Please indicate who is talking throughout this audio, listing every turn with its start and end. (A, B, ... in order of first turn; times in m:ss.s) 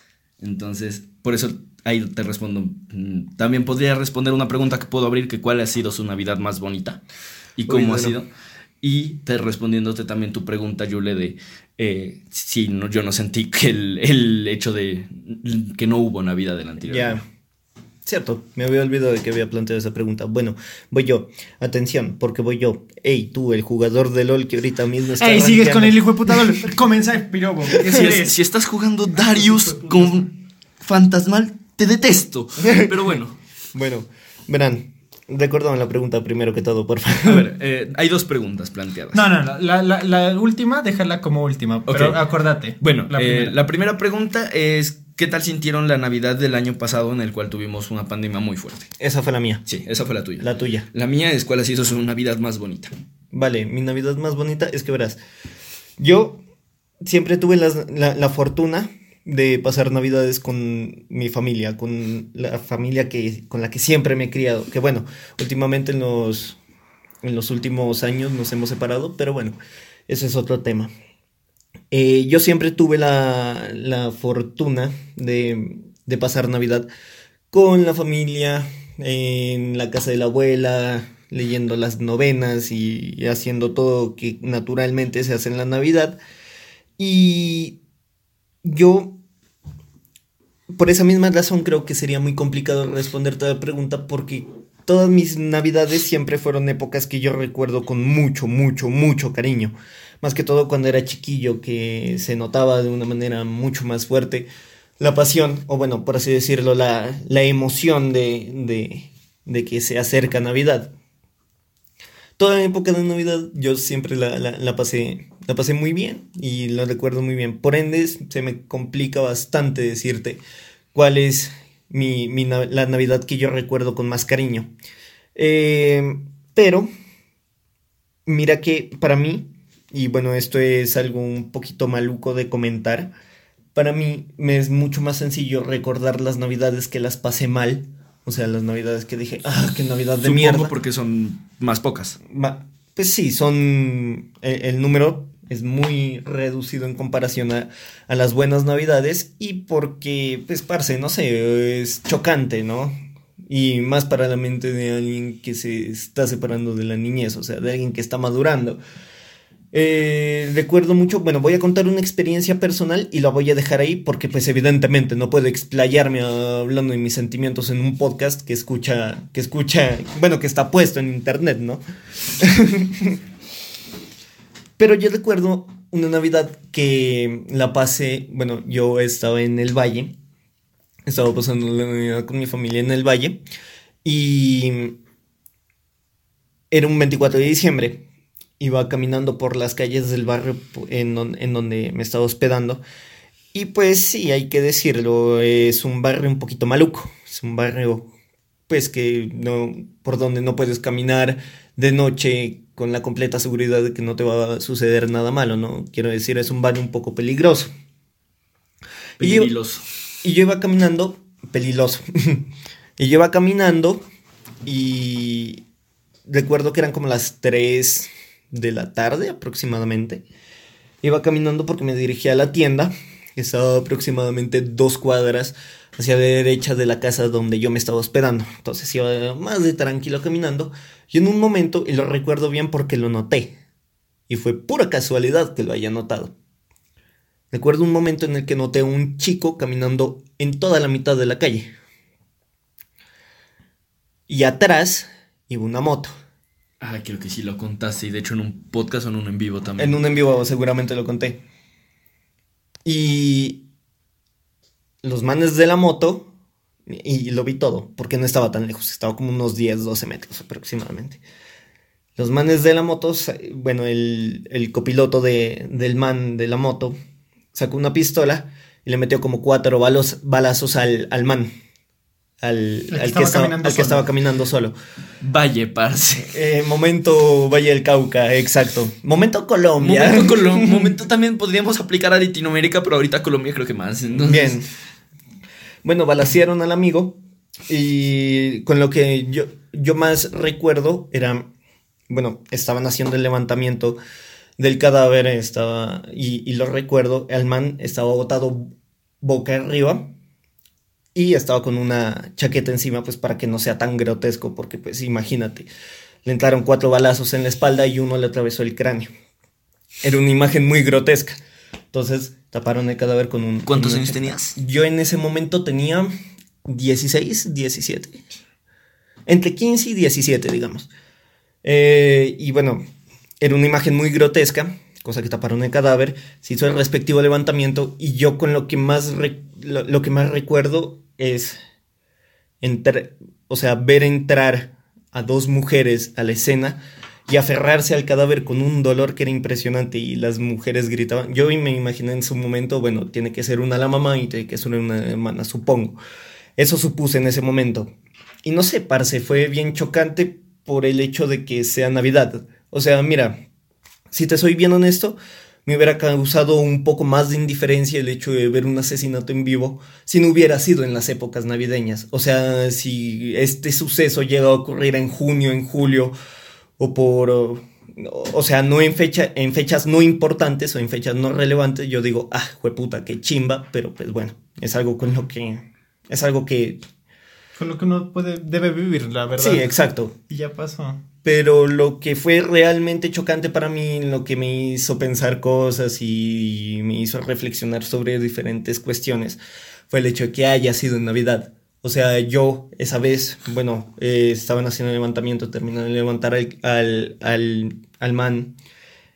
0:00.4-0:07.0 A
0:07.6-0:08.3 A
0:07.7-0:08.2 B
0:08.8-0:17.2 A
0:16.9-0:17.2 B
0:18.0-0:26.6 B
0:25.2-0:28.3 C
0:27.9-0:33.4 A
0:29.4-0:30.0 C
0:33.7-0:37.4 B
0:37.2-0:39.2 A
0:39.1-0:43.5 C
0:41.9-0:42.2 A
0:42.8-0:48.9 A
0:49.0-0:49.6 B
0:49.6-0:52.9 A
0:50.4-0:50.9 B
0:53.3-0:55.2 B
0:56.0-0:56.4 B
0:57.0-1:06.6 B
1:07.2-1:09.6 B
1:10.1-1:10.9 B
1:11.9-1:16.9 B
1:17.5-1:26.2 B
1:27.0-1:27.8 B
1:28.6-1:29.2 B
1:30.7-1:44.5 B
1:45.0-1:50.9 B
1:52.4-2:00.4 B
2:00.9-2:04.7 B
2:05.3-2:06.9 B
2:08.2-2:13.1 B
2:13.7-2:20.7 B
2:20.2-2:22.2 A
2:22.3-2:33.0 B
2:33.5-2:38.8 B
2:39.7-2:51.8 B
2:52.4-2:53.2 B
2:54.8-3:00.1 B
3:01.0-3:03.4 B
3:04.0-3:05.0 B
3:06.7-3:08.0 B
3:08.6-3:12.8 B
3:13.5-3:18.1 B
3:18.7-3:27.7 B
3:29.2-3:29.5 B
3:29.2-3:29.8 A
3:30.2-3:34.0 B
3:34.6-3:35.6 B
3:36.2-3:40.2 B
3:41.0-3:53.6 B
3:54.3-3:56.3 B
3:57.5-4:01.7 B
4:04.3-4:06.1 B
4:06.8-4:10.0 A
4:09.8-4:11.4 B
4:12.8-4:13.6 B
4:15.0-4:16.3 B
4:16.9-4:21.2 B
4:22.2-4:27.0 B
4:27.5-4:31.5 B
4:32.4-4:34.7 B
4:32.9-4:34.1 C
4:35.2-4:36.4 A
4:36.3-4:40.9 B
4:39.8-4:44.6 A
4:44.2-4:44.7 B
4:45.8-4:51.5 B
4:52.1-4:54.0 B
4:54.6-5:00.1 B
5:01.1-5:05.7 B
5:06.2-5:09.1 B
5:10.0-5:11.4 B
5:11.9-5:16.1 B
5:13.6-5:14.6 A
5:16.6-5:18.2 B
5:19.3-5:20.9 B
5:21.6-5:22.8 B
5:23.4-5:31.6 B
5:32.6-5:46.0 B
5:46.6-5:47.9 B
5:48.4-5:53.4 B
5:54.1-6:06.1 B
6:06.8-6:16.8 B
6:17.6-6:19.7 C
6:19.4-6:20.1 B
6:20.3-6:21.0 C
6:21.2-6:29.4 B
6:29.9-6:38.5 B